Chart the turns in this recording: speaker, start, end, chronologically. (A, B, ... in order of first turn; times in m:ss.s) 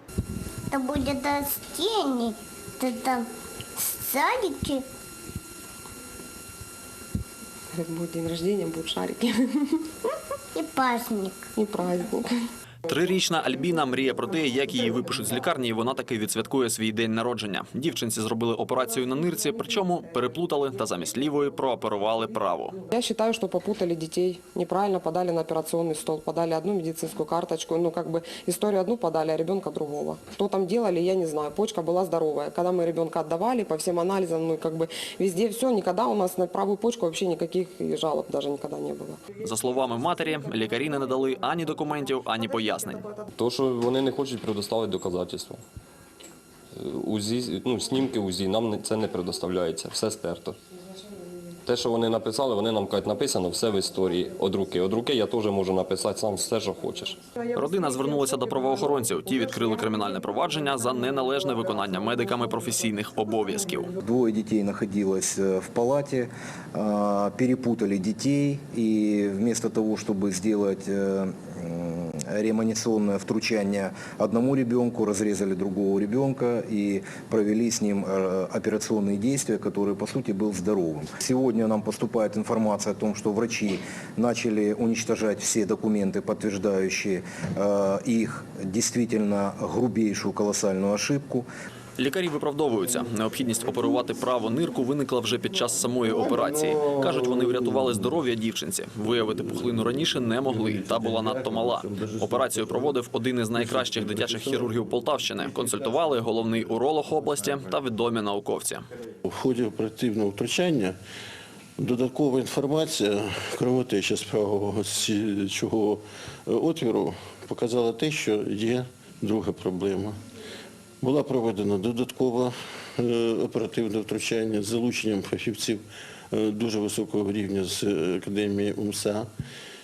0:00.7-0:04.8 A
0:07.7-0:09.8 B
0:10.6-0:11.4 A
0:11.6-0:12.4 B
0:12.9-0:22.8 C
0:22.9-0:39.2 B
0:39.4-0:43.1 C
0:43.4-0:45.6 D
0:46.8-0:50.6 D
0:51.6-0:57.2 D
0:57.5-1:03.9 C
1:04.0-1:31.5 E
1:32.0-1:48.8 C
1:49.2-1:50.9 F
1:51.8-2:00.2 F
2:01.0-2:09.3 F